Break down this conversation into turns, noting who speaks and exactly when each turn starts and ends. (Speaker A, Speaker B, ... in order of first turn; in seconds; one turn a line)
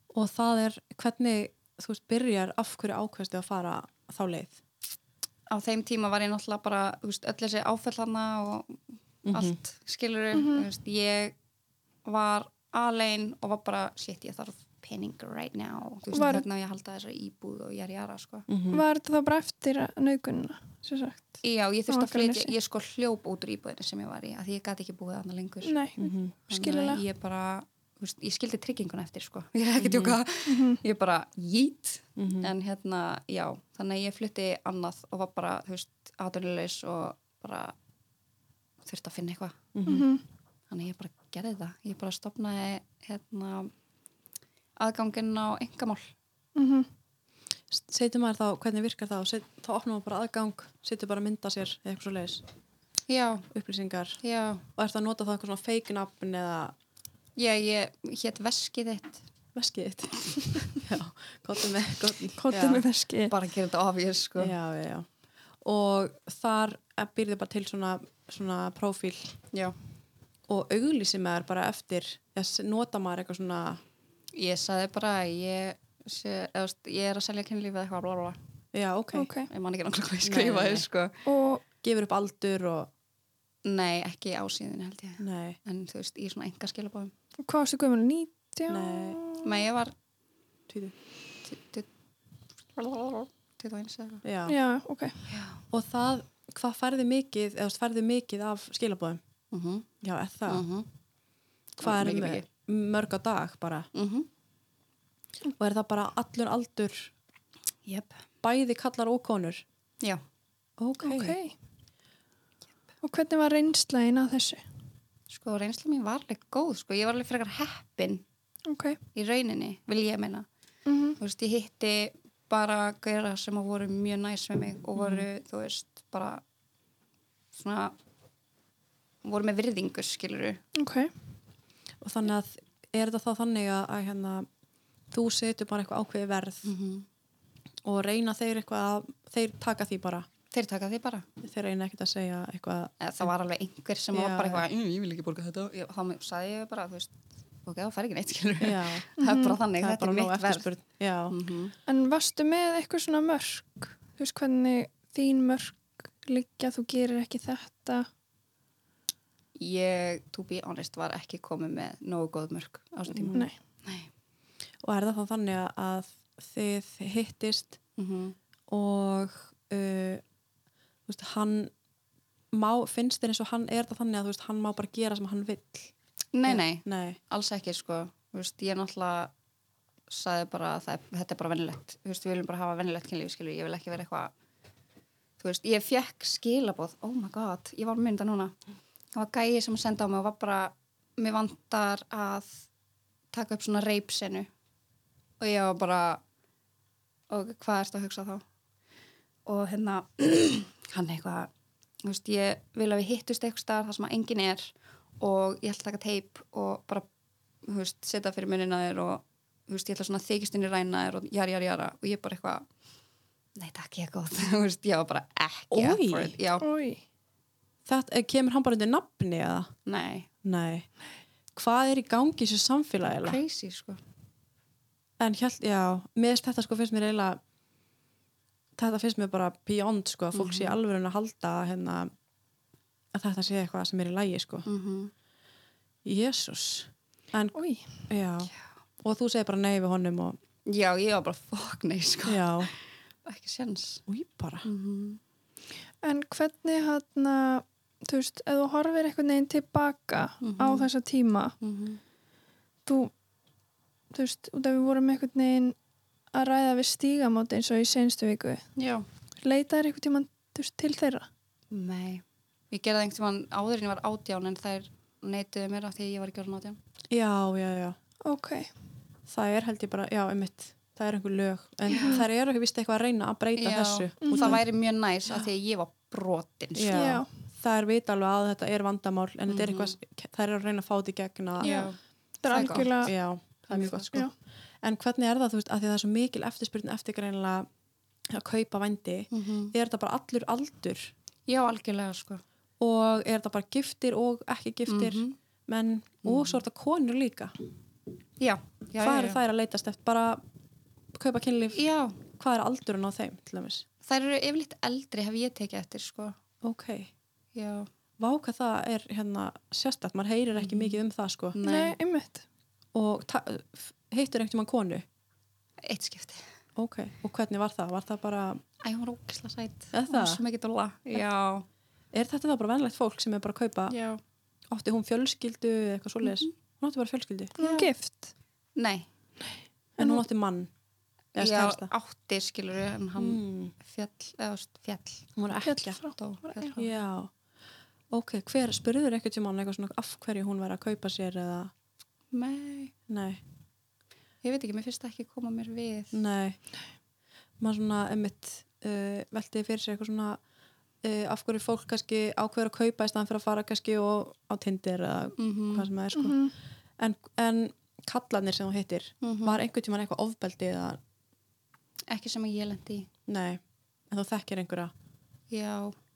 Speaker A: 0.1-4.6
Speaker B: 5.5-11.4
Speaker A: 9.3-9.6
Speaker C: 10.3-10.7
Speaker B: 12.1-18.5
Speaker C: 16.1-16.4
Speaker A: 18.5-18.8
Speaker C: 18.7-22.5
Speaker B: 21.4-25.8
Speaker C: 25.6-27.0
Speaker A: 26.0-26.4
Speaker B: 26.5-37.8
Speaker A: 29.8-30.2
Speaker C: 30.4-30.8
Speaker A: 32.2-32.5
Speaker B: 38.8-39.6
Speaker A: 39.8-40.1
Speaker C: 39.9-40.2
Speaker B: 40.7-43.7
Speaker B: 44.8-46.1
Speaker C: 46.5-46.9
Speaker A: 47.7-52.4
Speaker B: 53.1-53.5
Speaker A: 53.5-54.2
Speaker B: 54.2-54.6
Speaker A: 54.8-56.8
Speaker B: 57.4-59.2
Speaker A: 59.5-62.8
Speaker C: 62.5-63.4
Speaker B: 63.3-64.5
Speaker A: 64.4-65.1
Speaker A: 65.6-69.4
Speaker A: 70.5-73.8
Speaker B: 74.3-78.4
Speaker A: 78.7-79.3
Speaker C: 79.1-79.5
Speaker B: 79.5-81.2
Speaker A: 80.2-80.9
Speaker C: 81.2-81.6
Speaker A: 81.8-82.9
Speaker B: 83.7-87.1
Speaker A: 85.2-85.6
Speaker C: 87.4-89.6
Speaker A: 88.7-89.2
Speaker B: 89.4-89.9
Speaker A: 90.7-90.9
Speaker B: 91.5-91.9
Speaker B: 92.7-94.2
Speaker A: 94.2-94.6
Speaker C: 94.5-95.3
Speaker B: 95.3-95.6
Speaker A: 95.7-99.2
Speaker B: 99.5-99.9
Speaker A: 100.0-100.6
Speaker B: 100.5-100.9
Speaker B: 101.8-102.5
Speaker A: 101.8-103.9
Speaker B: 103.9-104.3
Speaker A: 105.6-107.1
Speaker B: 107.8-108.2
Speaker A: 108.4-109.6
Speaker A: 110.8-111.4
Speaker C: 111.0-111.6
Speaker C: 113.0-114.7
Speaker B: 115.3-118.2
Speaker C: 118.7-119.0
Speaker B: 119.2-120.5
Speaker C: 120.9-121.2
Speaker B: 121.2-126.4
Speaker A: 125.0-125.3
Speaker B: 127.5-128.0
Speaker B: 129.2-130.6
Speaker C: 130.8-131.1
Speaker A: 132.0-134.5
Speaker A: 135.1-136.7
Speaker B: 136.7-137.1
Speaker A: 137.8-140.3
Speaker B: 140.5-141.3
Speaker A: 141.4-143.3
Speaker B: 143.0-150.7
Speaker A: 144.1-144.6
Speaker A: 148.6-149.1
Speaker C: 149.2-149.6
Speaker A: 149.8-151.3
Speaker B: 151.3-151.8
Speaker C: 151.9-158.1
Speaker B: 159.6-164.1
Speaker A: 163.2-163.5
Speaker A: 164.8-167.8
Speaker B: 168.0-168.4
Speaker A: 168.7-170.2
Speaker A: 171.1-171.7
Speaker A: 172.5-175.9
Speaker B: 176.3-179.3
Speaker A: 176.5-177.2
Speaker B: 180.1-184.3
Speaker B: 185.4-188.6
Speaker B: 189.1-192.7
Speaker B: 193.3-194.5
Speaker B: 195.4-196.2
Speaker B: 197.3-198.4
Speaker B: 199.5-201.5
Speaker B: 202.0-207.1
Speaker B: 207.6-212.7
Speaker B: 213.6-216.7
Speaker A: 215.7-216.4
Speaker C: 216.6-217.0
Speaker A: 217.9-219.7
Speaker B: 219.9-220.3
Speaker A: 220.4-220.9
Speaker A: 221.6-223.4
Speaker B: 223.2-224.0
Speaker A: 225.2-227.4
Speaker A: 228.8-232.1
Speaker B: 230.3-230.8
Speaker A: 233.1-234.7
Speaker B: 234.7-235.1
Speaker A: 236.1-238.5
Speaker C: 237.6-238.1
Speaker A: 239.0-240.4
Speaker B: 240.7-244.0
Speaker A: 242.3-242.7
Speaker A: 244.1-244.7
Speaker B: 244.7-245.2
Speaker C: 246.0-251.6
Speaker B: 250.4-250.9
Speaker B: 251.6-252.0
Speaker C: 252.9-253.1
Speaker C: 254.1-255.8
Speaker C: 256.3-258.7
Speaker B: 258.8-259.1
Speaker C: 259.4-261.3
Speaker B: 261.7-266.8
Speaker A: 267.1-268.0
Speaker C: 268.2-268.7
Speaker A: 269.3-274.6
Speaker B: 271.9-272.2
Speaker C: 272.0-272.3
Speaker B: 273.6-277.1
Speaker C: 274.2-274.6
Speaker A: 276.8-281.7
Speaker C: 276.9-277.3
Speaker B: 279.5-280.0
Speaker B: 281.6-283.1
Speaker C: 281.6-283.1
Speaker A: 282.5-284.3
Speaker B: 283.7-284.1
Speaker A: 284.8-287.7
Speaker A: 288.3-291.1
Speaker B: 289.3-289.7
Speaker B: 291.5-292.4
Speaker A: 292.8-297.5
Speaker B: 294.9-295.4
Speaker B: 296.2-296.6
Speaker B: 298.4-299.4
Speaker A: 299.0-300.4
Speaker A: 301.1-303.9
Speaker B: 301.8-302.2
Speaker B: 304.0-306.4
Speaker A: 306.6-307.1
Speaker B: 307.6-307.9
Speaker A: 308.2-311.6
Speaker B: 310.6-311.0
Speaker B: 311.5-312.0
Speaker C: 311.6-312.4
Speaker A: 312.9-315.1
Speaker B: 315.8-316.4
Speaker A: 316.8-318.6
Speaker B: 318.8-321.7
Speaker A: 319.9-320.4
Speaker A: 322.1-323.9
Speaker B: 323.9-324.2
Speaker A: 324.7-327.6
Speaker B: 326.2-326.5
Speaker B: 327.6-327.9
Speaker C: 327.6-328.3
Speaker B: 328.8-329.1
Speaker C: 330.0-330.2
Speaker A: 330.0-330.7
Speaker A: 331.4-331.9
Speaker B: 331.4-335.3
Speaker A: 333.2-333.7
Speaker A: 335.4-336.0
Speaker C: 335.6-336.8
Speaker B: 336.1-336.8
Speaker A: 336.8-337.3
Speaker A: 338.1-341.7
Speaker B: 342.3-342.9
Speaker A: 343.1-343.4
Speaker B: 344.4-346.2
Speaker A: 346.1-346.6
Speaker A: 347.6-350.4
Speaker A: 351.0-361.0
Speaker B: 355.4-355.9
Speaker C: 356.1-356.6
Speaker B: 359.2-359.6
Speaker B: 362.1-363.1
Speaker A: 363.3-364.9
Speaker B: 365.5-366.0